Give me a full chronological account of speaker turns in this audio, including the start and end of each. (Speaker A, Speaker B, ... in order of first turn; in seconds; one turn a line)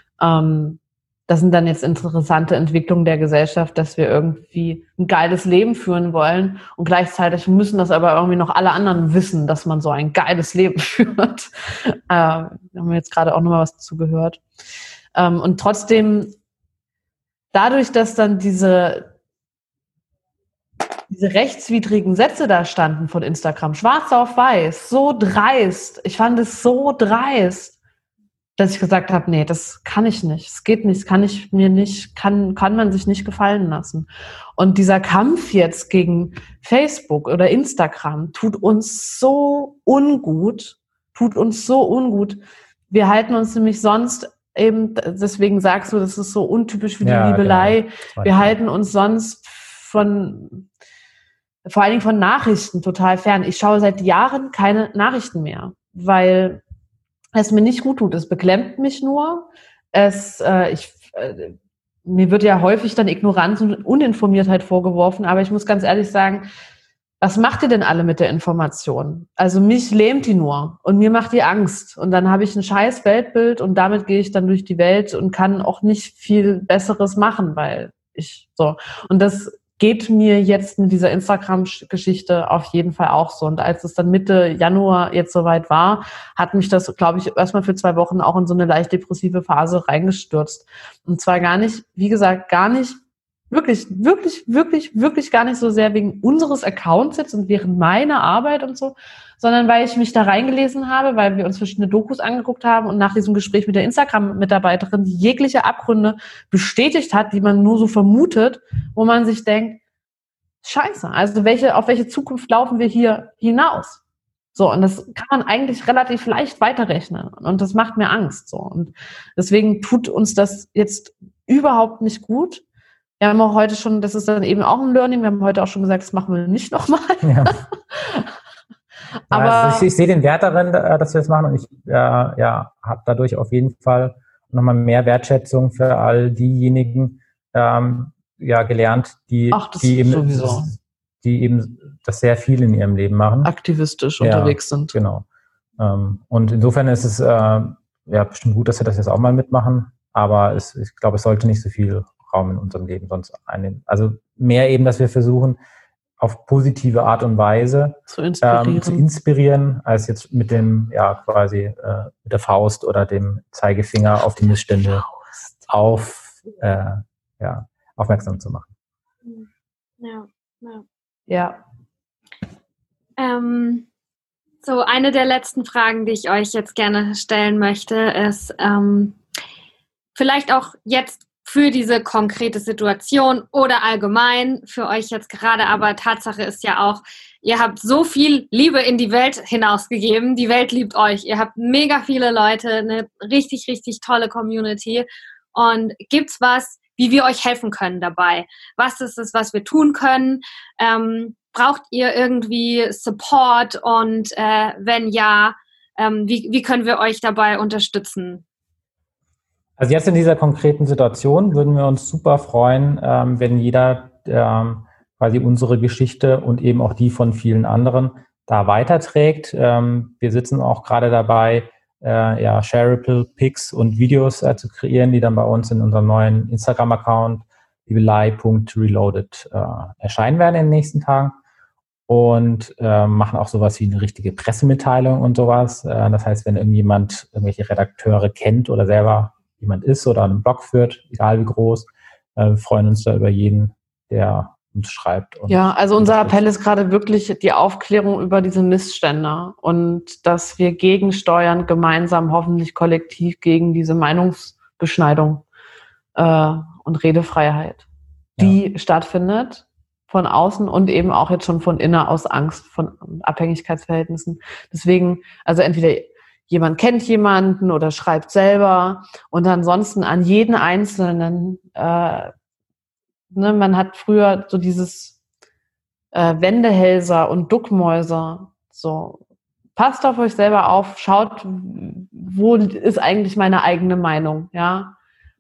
Speaker A: 0.2-14.4
Speaker A: 15.2-16.4
Speaker A: 17.5-19.1
Speaker A: 21.1-27.8
Speaker A: 28.6-50.7
Speaker B: 47.0-48.5
Speaker A: 51.6-56.6
Speaker A: 57.4-61.5
Speaker A: 62.1-66.5
Speaker A: 67.2-93.0
Speaker A: 93.5-109.8
Speaker A: 110.6-114.0
Speaker A: 114.5-122.6
Speaker A: 123.2-128.3
Speaker B: 127.2-127.6
Speaker A: 129.3-129.9
Speaker B: 129.3-143.5
Speaker A: 139.5-140.7
Speaker A: 143.4-144.9
Speaker B: 144.2-145.2
Speaker B: 145.8-155.6
Speaker B: 156.2-165.1
Speaker A: 158.1-159.1
Speaker B: 165.7-168.7
Speaker C: 170.0-170.8
Speaker A: 171.3-171.6
Speaker C: 173.2-173.9
Speaker C: 174.6-179.2
Speaker C: 180.2-208.4
Speaker B: 209.8-231.4
Speaker B: 232.1-246.4
Speaker A: 245.5-255.4
Speaker A: 256.1-257.9
Speaker A: 258.4-272.3
Speaker A: 273.3-275.2
Speaker A: 276.1-279.2
Speaker A: 279.8-284.9